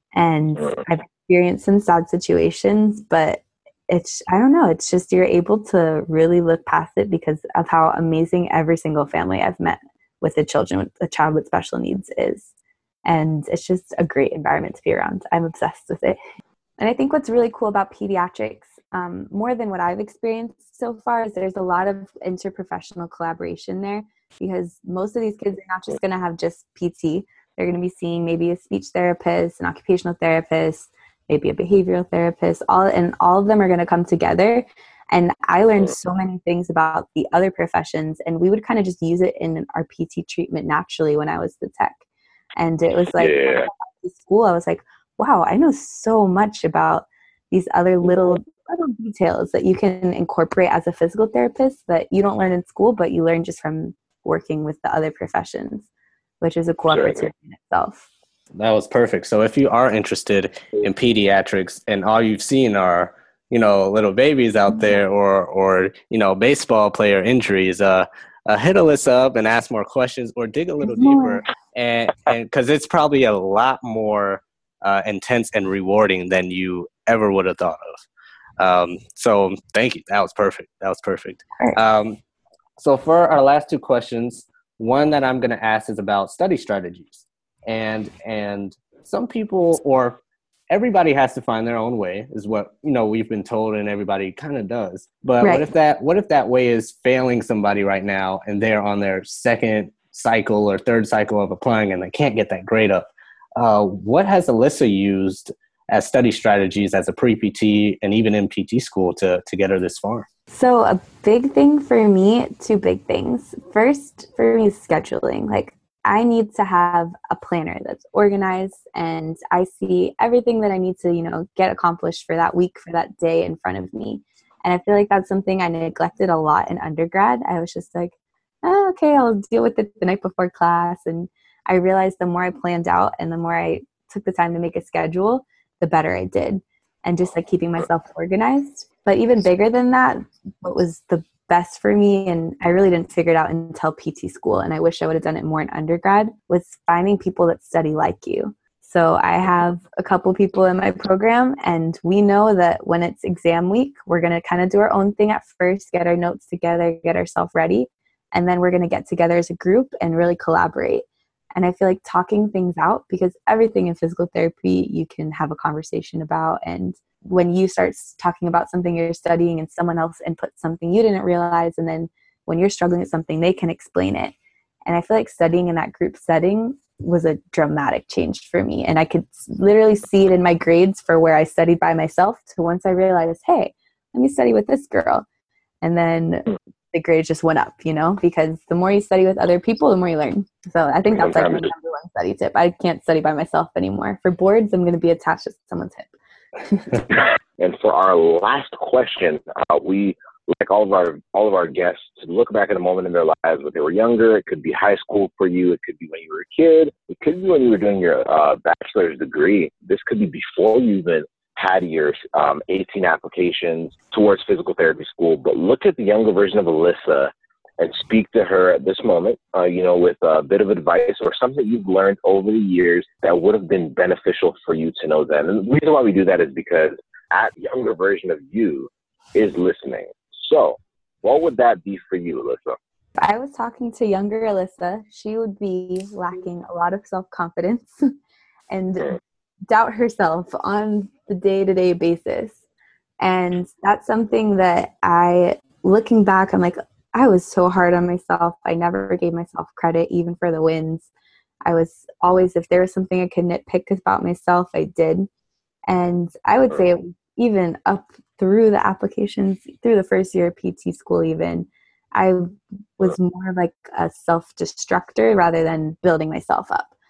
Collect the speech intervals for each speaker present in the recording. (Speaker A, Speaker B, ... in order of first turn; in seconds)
Speaker A: 0.1-12.5, 13.1-16.2, 16.8-42.0, 42.6-55.9, 56.4-58.1, 70.8-71.4, 95.4-95.7, 110.5-174.3, 174.9-185.2, 185.8-196.1, 196.6-197.1, 233.2-238.1, 238.7-239.2, 239.7-242.6, 243.2-251.1, 251.6-255.3, 255.9-266.9
Speaker B: 43.2-43.7, 56.9-57.3, 191.1-191.7, 197.6-232.8
Speaker C: 58.5-78.0, 78.6-82.2, 82.8-110.3